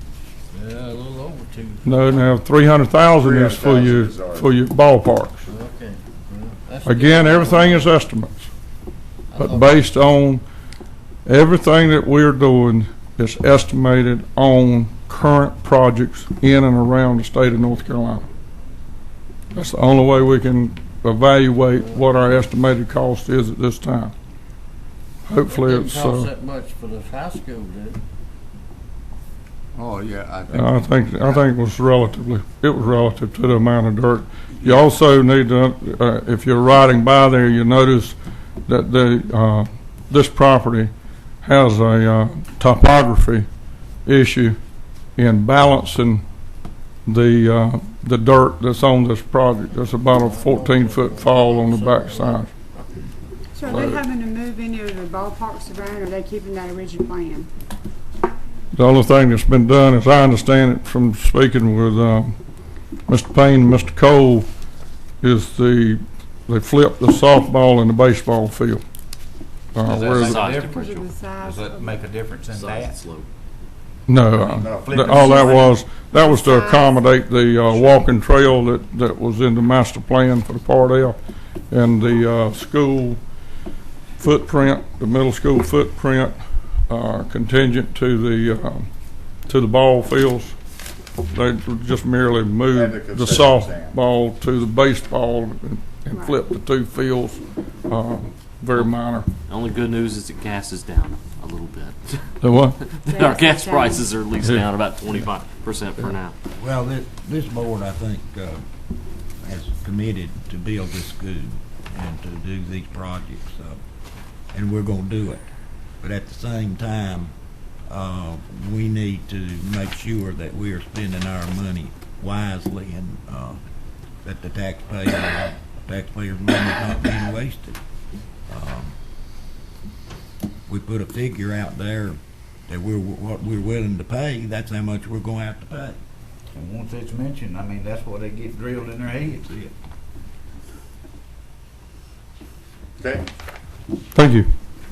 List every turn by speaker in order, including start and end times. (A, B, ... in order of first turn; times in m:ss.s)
0:00.5-0:02.3 A
0:01.8-0:05.5 B
0:03.1-0:04.5 C
0:05.4-0:07.9 A
0:06.8-0:08.5 B
0:09.3-0:09.9 A
0:09.4-0:10.4 B
0:11.2-0:18.2 B
0:19.5-0:24.1 B
0:21.7-0:22.1 A
0:25.3-0:26.3 B
0:25.4-0:28.0 A
0:29.7-0:30.8 C
0:30.5-0:38.1 B
0:38.7-0:40.9 B
0:41.4-0:43.4 B
0:44.0-0:44.6 B
0:45.2-0:46.2 B
0:47.0-0:52.5 B
0:49.9-0:53.0 A
0:53.5-0:57.5 D
0:53.6-0:54.0 B
0:58.7-1:02.3 B
1:03.1-1:04.5 B
1:05.2-1:08.8 B
1:09.7-1:10.5 B
1:09.8-1:11.1 E
1:10.0-1:10.8 F
1:10.7-1:11.9 D
1:11.4-1:13.0 F
1:12.5-1:13.3 E
1:14.1-1:21.2 B
1:14.4-1:15.3 C
1:14.6-1:15.8 F
1:16.1-1:17.0 D
1:17.7-1:18.0 D
1:21.7-1:23.2 B
1:24.2-1:26.4 B
1:26.9-1:28.9 B
1:29.4-1:30.5 B
1:31.3-1:39.3 B
1:32.7-1:34.0 C
1:36.1-1:36.4 D
1:39.5-1:46.3 E
1:42.4-1:42.9 B
1:43.0-1:44.1 D
1:46.5-1:48.6 G
1:49.4-1:53.8 G
1:54.5-1:55.4 G
1:56.0-1:57.3 G
1:57.9-2:03.6 G
2:04.2-2:07.8 G
2:08.5-2:08.9 G
2:10.7-2:16.0 G
2:16.5-2:19.6 F
2:23.0-2:23.2 C
2:24.1-2:24.5 B